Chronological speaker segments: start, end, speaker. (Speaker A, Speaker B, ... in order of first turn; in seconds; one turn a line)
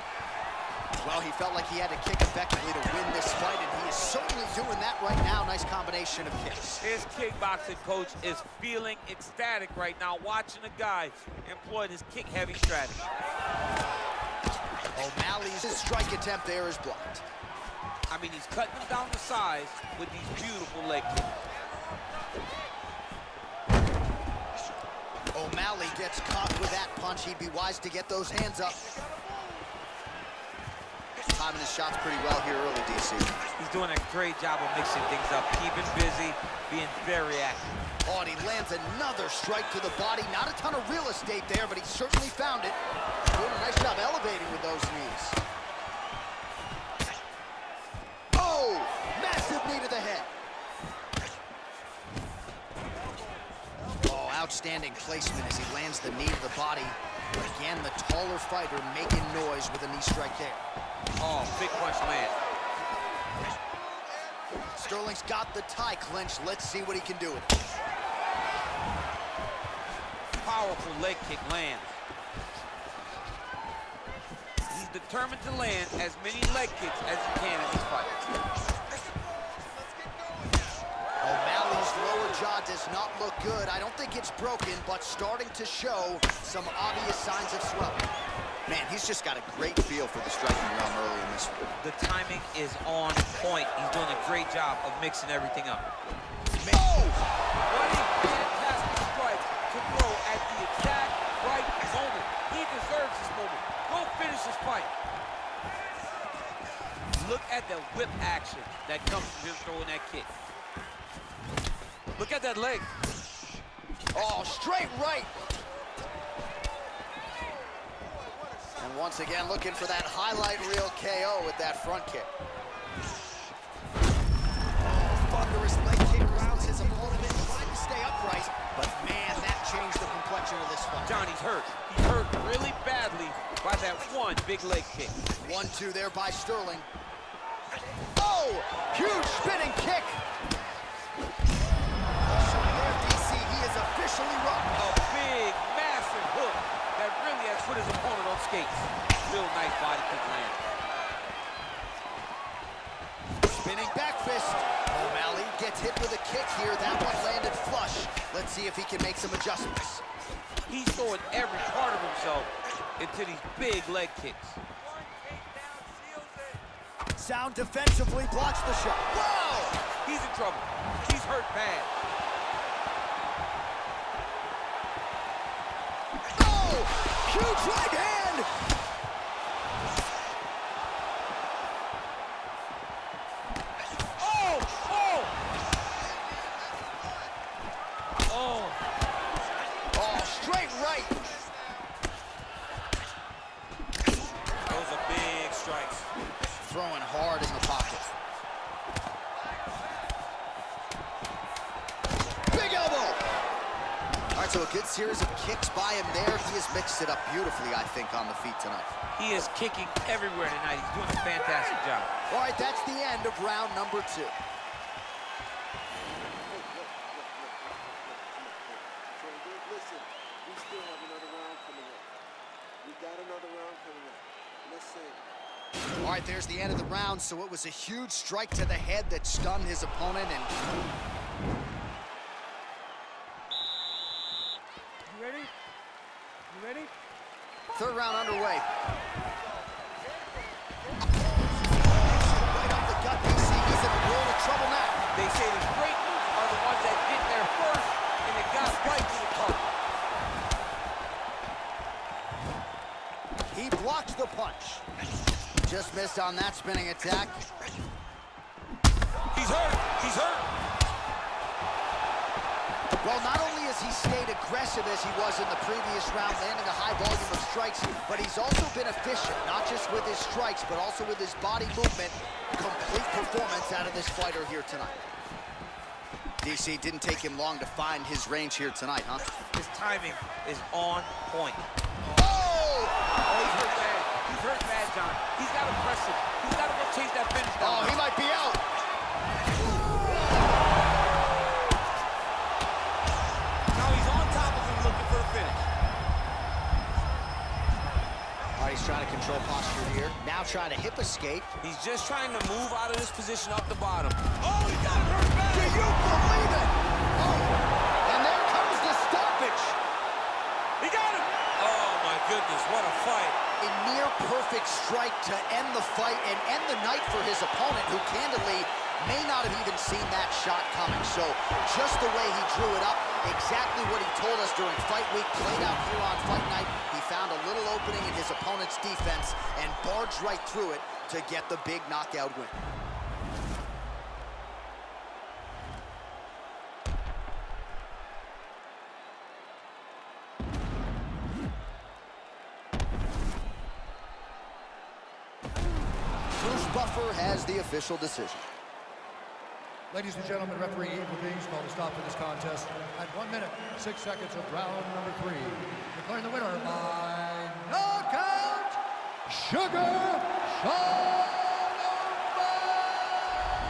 Speaker A: 1.0-6.8
Speaker B: 6.8-13.1
Speaker A: 14.9-17.2
Speaker B: 18.1-21.3
Speaker A: 25.3-28.8
Speaker A: 31.3-33.4
Speaker B: 33.6-37.7
Speaker A: 38.0-42.8
Speaker A: 43.3-45.4
Speaker A: 48.3-50.3
Speaker A: 54.0-60.6
Speaker B: 61.2-62.4
Speaker A: 64.7-67.5
Speaker B: 70.4-72.0
Speaker B: 74.7-78.3
Speaker A: 81.2-88.0
Speaker A: 88.7-91.7
Speaker B: 91.8-95.9
Speaker A: 96.6-97.2
Speaker B: 97.7-104.9
Speaker B: 107.1-110.3
Speaker B: 112.1-112.9
Speaker A: 114.1-115.3
Speaker A: 118.8-122.3
Speaker A: 124.8-131.3
Speaker B: 131.0-135.1
Speaker A: 135.4-136.9
Speaker A: 138.2-140.2
Speaker A: 142.2-144.7
Speaker B: 144.7-150.6
Speaker A: 153.4-160.0
Speaker B: 160.7-166.6
Speaker A: 167.2-169.8
Speaker B: 169.9-171.9
Speaker A: 176.3-178.5
Speaker B: 184.2-185.3
Speaker B: 188.3-188.8
Speaker A: 189.9-191.2
Speaker B: 194.7-196.1
Speaker A: 196.6-198.1
Speaker A: 202.5-203.2
Speaker A: 204.3-208.9
Speaker B: 209.1-212.1
Speaker A: 212.3-214.3
Speaker C: 216.5-222.1
Speaker C: 222.8-225.2
Speaker A: 226.0-230.5
Speaker B: 235.1-235.5
Speaker B: 236.5-236.9
Speaker A: 237.7-238.7
Speaker A: 241.8-245.0
Speaker B: 245.1-249.8
Speaker A: 253.5-254.8
Speaker A: 255.6-257.4
Speaker B: 259.3-260.5
Speaker A: 263.0-275.0
Speaker A: 276.4-279.3
Speaker B: 279.5-282.4
Speaker A: 282.1-282.9
Speaker B: 283.2-288.0
Speaker A: 287.6-288.6
Speaker B: 293.7-295.6
Speaker A: 298.6-301.5
Speaker B: 301.6-305.8
Speaker A: 305.5-309.8
Speaker B: 310.8-313.4
Speaker A: 313.6-332.6
Speaker A: 346.4-348.4
Speaker D: 349.9-363.3